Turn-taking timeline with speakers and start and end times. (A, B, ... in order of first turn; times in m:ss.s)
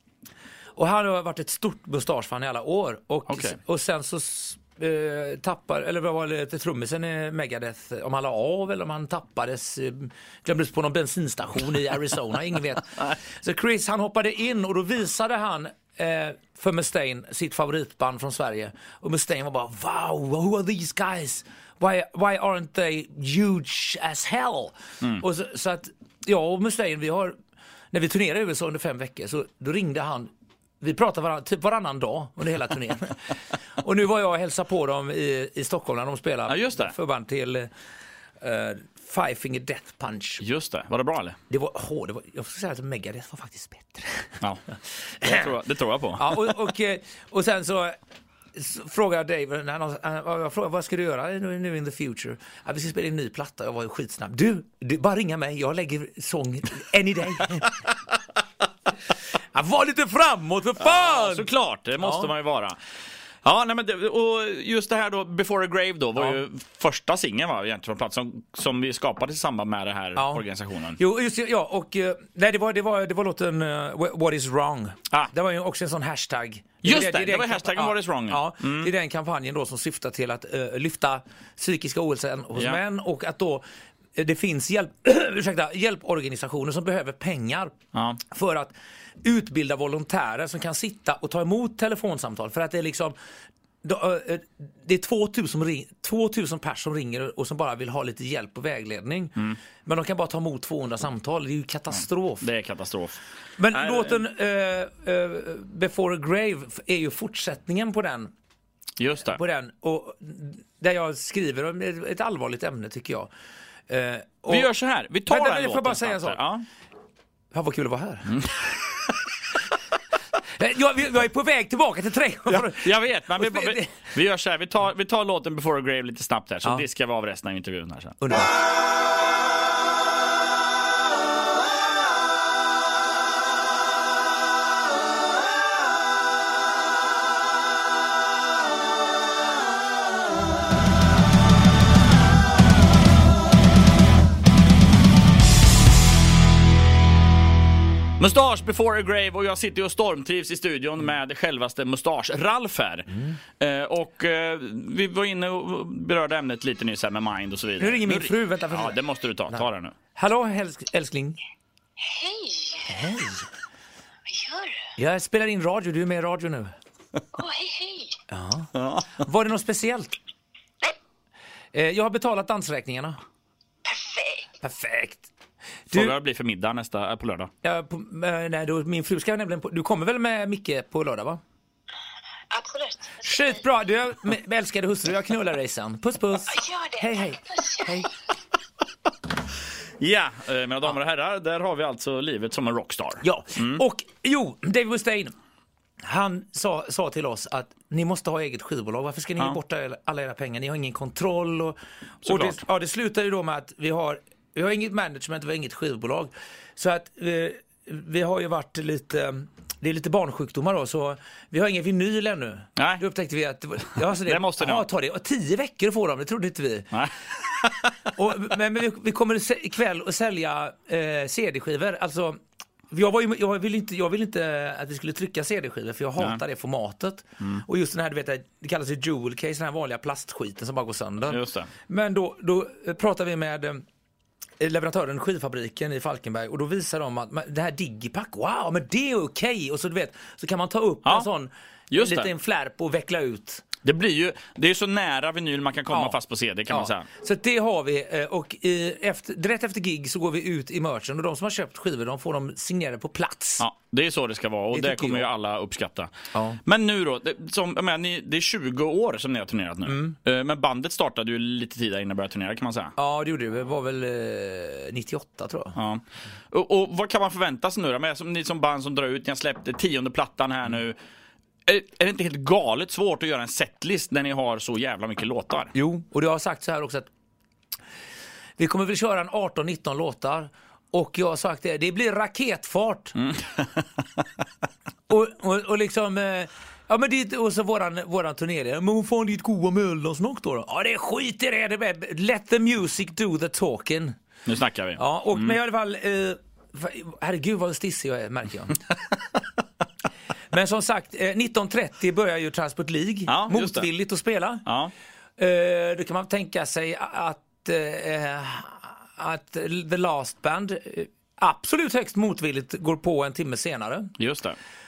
0:00.8-0:27.3 A
0:03.3-0:03.6 B
0:27.9-0:30.3 A
0:30.8-0:37.7 A
0:36.5-0:36.9 B
0:38.4-0:40.4 A
0:40.4-0:41.4 B
0:41.5-0:44.4 A
0:45.2-0:46.5 B
0:46.2-0:48.0 A
0:48.5-0:57.8 A
0:59.5-1:01.5 A
1:00.8-1:02.8 B
1:02.0-1:02.3 A
1:03.4-1:11.0 B
1:10.2-1:10.4 A
1:11.0-1:23.6 A
1:16.8-1:18.9 B
1:24.2-1:27.7 A
1:27.9-1:28.2 B
1:28.2-1:33.2 A
1:33.8-1:42.5 A
1:42.4-1:43.2 B
1:43.6-1:48.3 A
1:43.7-1:44.2 B
1:49.0-1:49.4 B
1:49.3-1:53.3 A
1:53.9-1:54.7 A
1:54.5-1:56.6 B
1:55.3-1:56.4 A
1:57.5-1:58.4 A
1:58.3-1:58.7 B
2:00.6-2:04.0 A
2:02.5-2:08.2 B
2:08.2-2:08.5 A
2:28.2-2:33.1 B
2:33.6-2:39.9 B
2:37.8-2:39.0 A
2:39.5-2:41.4 A
2:42.0-2:42.9 C
2:42.8-2:43.5 A
2:44.3-2:44.9 C
2:45.0-2:46.7 A
2:47.3-2:48.2 C
2:48.3-2:50.2 A
2:48.8-2:49.1 B
2:51.7-2:53.2 A
2:53.8-2:54.5 C
2:54.6-2:55.3 A
2:55.9-2:56.2 A
2:55.9-2:57.5 B
2:57.6-3:01.4 A
3:02.5-3:03.5 C
3:03.2-3:08.1 A
3:06.6-3:07.8 C
3:10.0-3:13.8 B
3:13.2-3:15.3 A
3:16.0-3:36.9 A
3:22.2-3:22.6 B
3:32.8-3:33.0 B
3:34.2-3:34.8 B
3:36.9-3:37.9 B
3:38.1-3:42.4 A
3:42.9-3:53.8 A
3:51.3-3:51.7 B
3:54.6-4:03.6 A
4:01.9-4:02.3 B
4:03.8-4:07.1 B
4:05.9-4:06.2 A
4:06.7-4:13.6 A
4:13.6-4:16.1 B
4:14.7-4:15.3 A
4:16.3-4:16.6 A
4:16.6-4:22.9 B
4:19.8-4:20.2 A
4:23.0-4:25.8 A
4:25.8-4:31.0 B
4:31.6-4:35.7 B
4:35.7-4:37.1 A
4:38.6-4:43.1 A
4:43.2-4:44.0 B
4:45.1-4:54.1 A
4:54.4-4:55.5 B
4:55.0-4:58.8 A
5:00.5-5:04.6 A
5:03.3-5:03.9 B
5:04.6-5:04.9 B
5:05.4-5:14.1 A
5:14.2-5:14.6 B